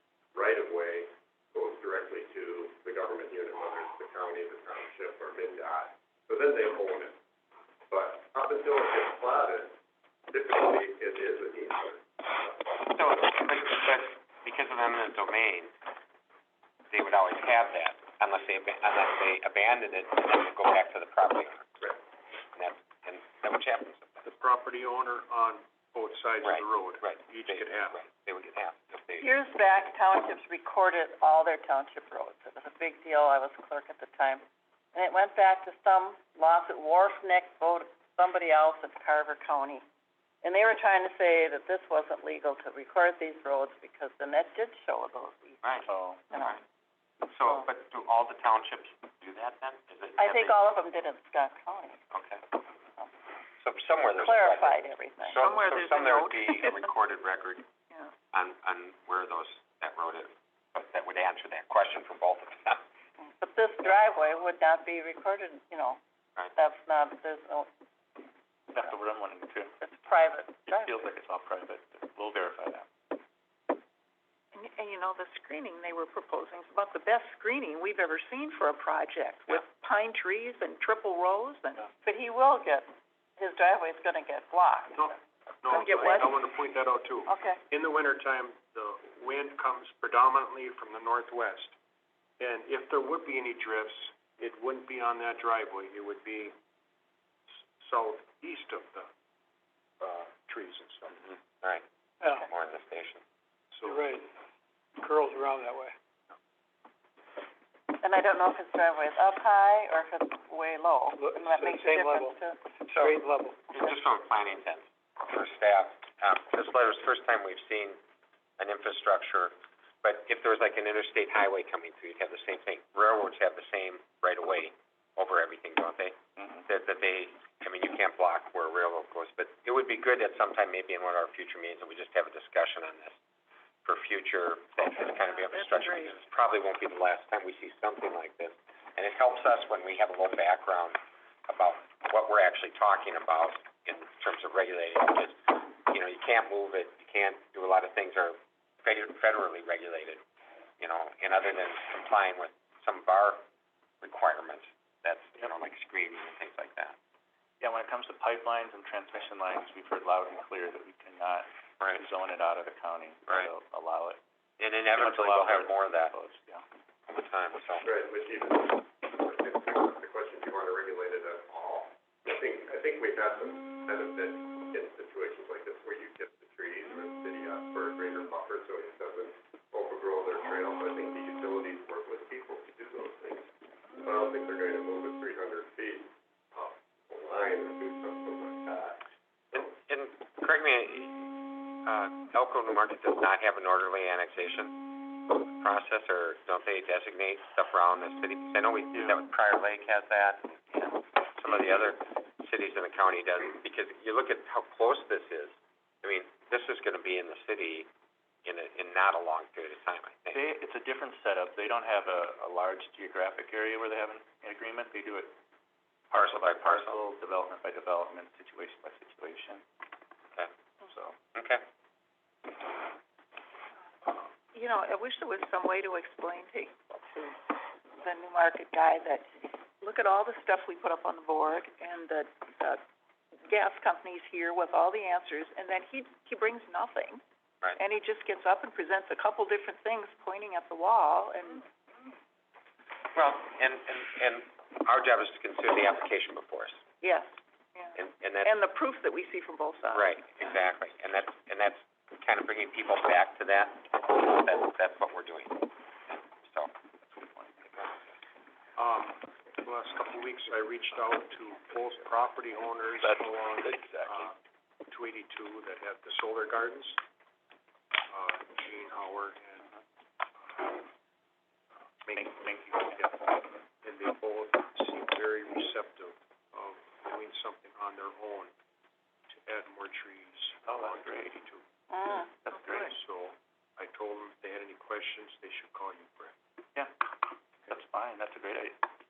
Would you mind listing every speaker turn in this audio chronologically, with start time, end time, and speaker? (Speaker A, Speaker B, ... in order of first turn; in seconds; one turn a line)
Speaker A: 0.3-7.2
Speaker A: 7.9-9.8
Speaker A: 10.3-12.7
Speaker B: 12.8-15.7
Speaker B: 16.9-21.8
Speaker B: 22.6-24.2
Speaker C: 24.2-28.0
Speaker B: 26.4-29.3
Speaker D: 29.2-34.4
Speaker D: 34.9-39.8
Speaker D: 40.4-45.8
Speaker B: 45.6-46.6
Speaker E: 45.9-46.3
Speaker B: 47.2-50.5
Speaker D: 50.2-52.0
Speaker B: 52.1-52.4
Speaker B: 53.6-57.7
Speaker D: 54.2-55.5
Speaker F: 55.4-56.8
Speaker B: 58.3-62.8
Speaker D: 63.2-66.0
Speaker D: 66.6-67.7
Speaker E: 68.7-69.8
Speaker D: 69.8-71.0
Speaker E: 70.7-72.9
Speaker F: 74.5-81.9
Speaker D: 82.0-82.9
Speaker D: 83.4-85.2
Speaker C: 85.0-91.8
Speaker D: 85.7-86.3
Speaker F: 85.8-86.3
Speaker D: 87.3-87.6
Speaker C: 92.4-96.5
Speaker C: 97.8-99.1
Speaker C: 100.0-101.2
Speaker B: 101.3-101.8
Speaker B: 102.4-103.2
Speaker C: 103.7-104.1
Speaker G: 103.9-104.2
Speaker G: 105.0-105.9
Speaker D: 108.0-112.6
Speaker G: 111.3-112.1
Speaker B: 112.9-113.2
Speaker G: 113.0-113.5
Speaker B: 113.7-118.0
Speaker B: 118.6-126.2
Speaker E: 126.4-126.6
Speaker B: 126.7-133.2
Speaker B: 133.8-150.2
Speaker B: 150.8-153.4
Speaker B: 154.0-157.0
Speaker E: 157.6-164.2
Speaker B: 161.8-162.1
Speaker B: 164.6-166.1
Speaker E: 164.9-166.6
Speaker B: 167.1-167.9
Speaker A: 167.8-183.5
Speaker A: 184.0-189.7
Speaker B: 189.5-191.3
Speaker B: 191.8-194.8
Speaker B: 195.6-200.6
Speaker E: 198.9-199.2
Speaker E: 200.7-201.9
Speaker B: 201.4-207.9
Speaker B: 208.4-210.4
Speaker E: 210.3-215.3
Speaker B: 216.1-217.0
Speaker E: 216.1-219.6
Speaker E: 220.8-221.2
Speaker B: 221.3-221.6
Speaker F: 224.5-227.4
Speaker F: 228.0-229.3
Speaker F: 229.8-232.8
Speaker F: 233.5-237.2
Speaker F: 237.8-241.6
Speaker B: 243.2-246.8
Speaker F: 247.0-250.1
Speaker B: 248.0-248.5
Speaker B: 249.9-255.7
Speaker B: 256.4-256.7
Speaker E: 257.1-257.6
Speaker C: 258.8-264.4
Speaker E: 263.7-264.0
Speaker C: 264.9-267.0
Speaker C: 268.1-269.7
Speaker C: 272.0-278.5
Speaker E: 272.1-273.1
Speaker C: 279.3-286.4
Speaker E: 280.6-281.4
Speaker D: 281.9-282.3
Speaker E: 282.4-282.9
Speaker E: 287.7-288.8